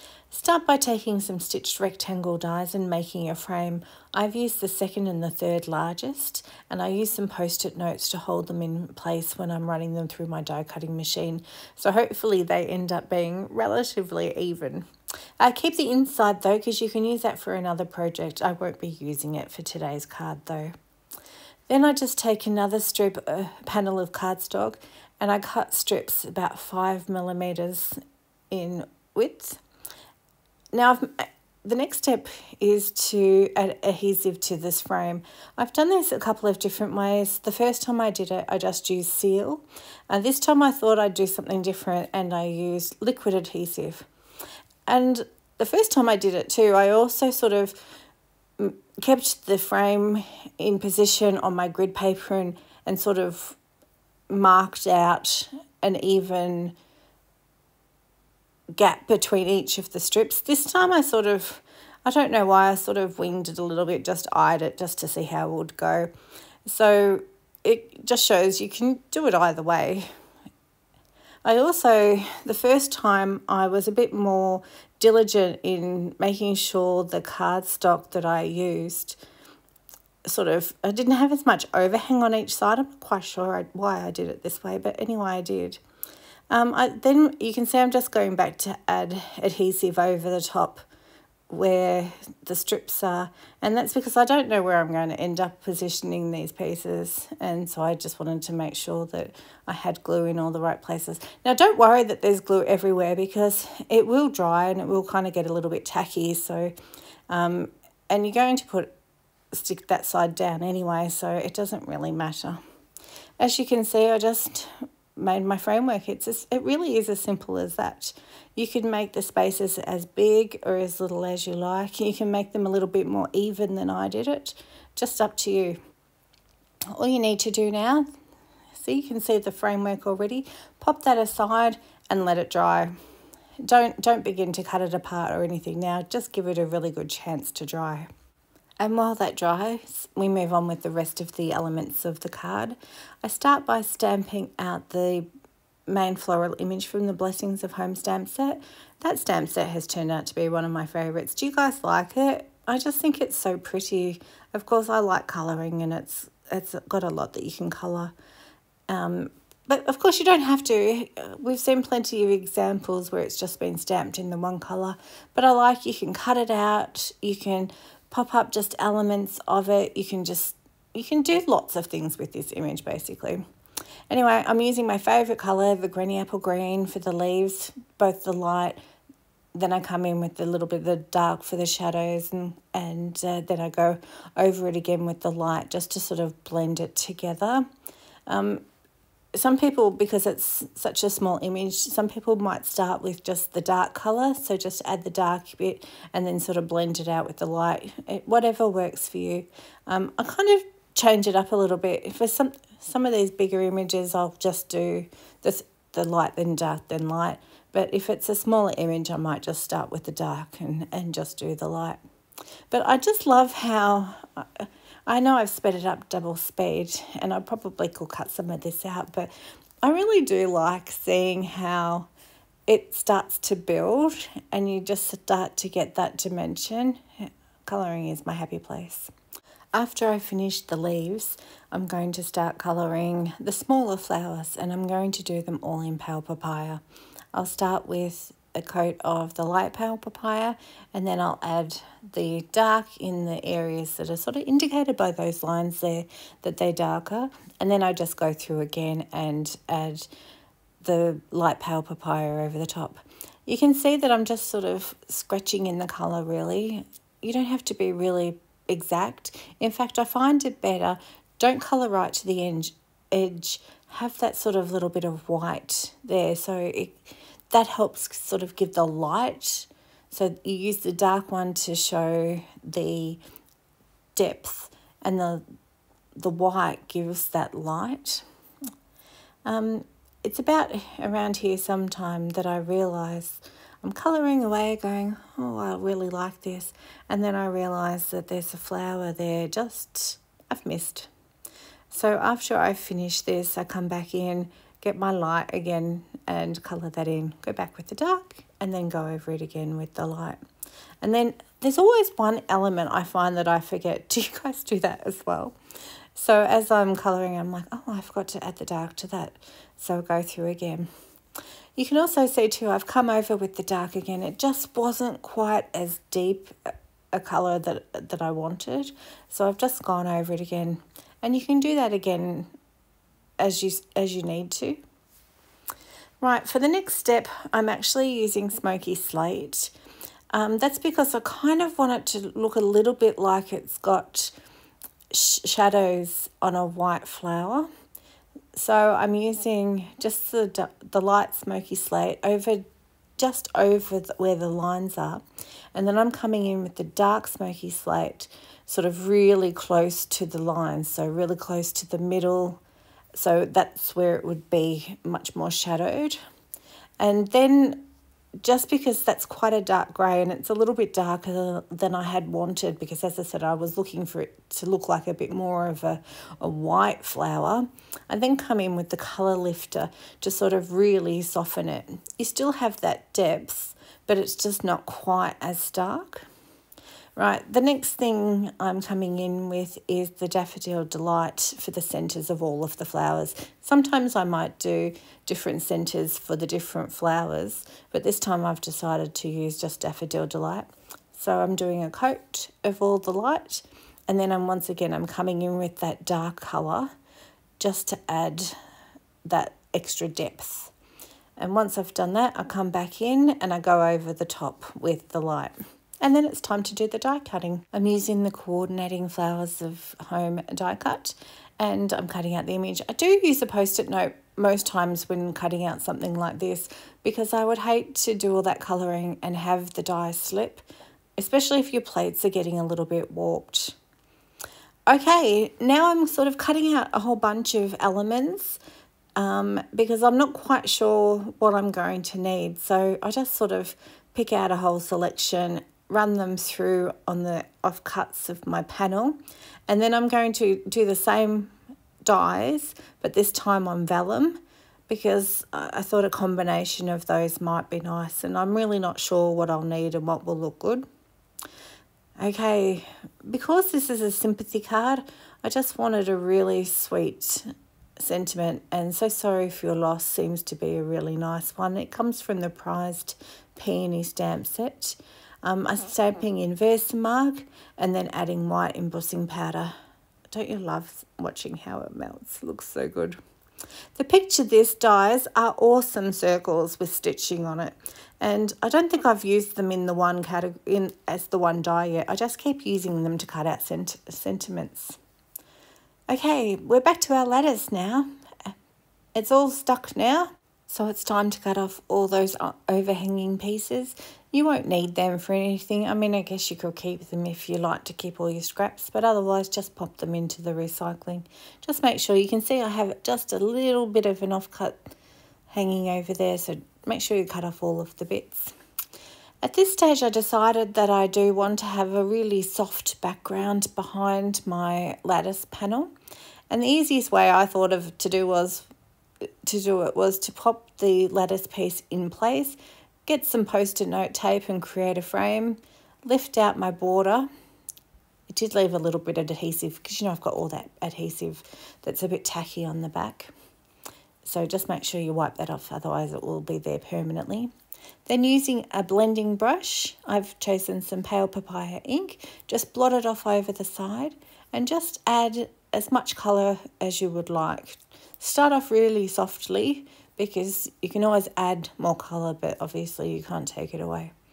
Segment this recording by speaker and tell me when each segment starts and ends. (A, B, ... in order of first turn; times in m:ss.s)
0:00.3-0:14.9 A
0:15.4-0:20.8 A
0:21.7-0:28.0 A
0:28.5-0:29.6 A
0:30.7-0:44.1 A
0:44.9-0:47.8 A
0:48.6-0:53.6 A
0:54.3-0:56.8 A
0:58.7-1:06.1 A
1:06.7-1:10.1 A
1:11.4-1:19.2 A
1:20.2-1:25.8 A
1:26.5-1:30.8 A
1:31.5-1:46.7 A
1:47.3-1:48.9 A
1:49.5-1:52.6 A
1:53.4-2:05.8 A
2:06.9-2:08.1 A
2:08.8-2:12.9 A
2:13.6-2:18.1 A
2:18.8-2:25.3 A
2:25.9-2:38.1 A
2:38.9-2:53.4 A
2:54.1-2:58.8 A
2:59.6-3:07.7 A
3:08.3-3:08.6 A
3:09.3-3:32.0 A
3:32.7-3:39.3 A
3:39.8-3:42.1 A
3:42.7-3:49.1 A
3:49.7-3:56.8 A
3:57.3-4:10.1 A
4:10.8-4:33.2 A
4:34.2-4:35.4 A
4:36.2-4:38.2 A
4:39.4-4:51.1 A
4:51.9-5:00.4 A
5:01.0-5:05.6 A
5:06.2-5:10.9 A
5:11.8-5:16.6 A
5:17.1-5:22.5 A
5:23.4-5:24.8 A
5:26.2-5:29.7 A
5:30.3-5:34.3 A
5:35.1-5:37.7 A
5:38.6-5:42.6 A
5:43.2-5:45.2 A
5:45.8-5:52.6 A
5:53.1-5:56.2 A
5:57.0-5:57.8 A
5:58.4-6:16.3 A
6:17.2-6:36.9 A
6:37.6-6:38.6 A
6:39.2-6:40.7 A
6:41.4-7:00.6 A
7:01.2-7:03.8 A
7:04.9-7:08.6 A
7:09.2-7:30.9 A
7:32.2-7:49.7 A
7:50.3-7:53.2 A
7:54.0-8:05.0 A
8:06.1-8:08.5 A
8:09.2-8:24.9 A
8:25.5-8:28.5 A
8:29.4-8:35.9 A
8:36.5-8:38.7 A
8:39.4-8:47.3 A
8:48.3-8:53.3 A
8:54.2-8:57.5 A
8:58.1-9:14.1 A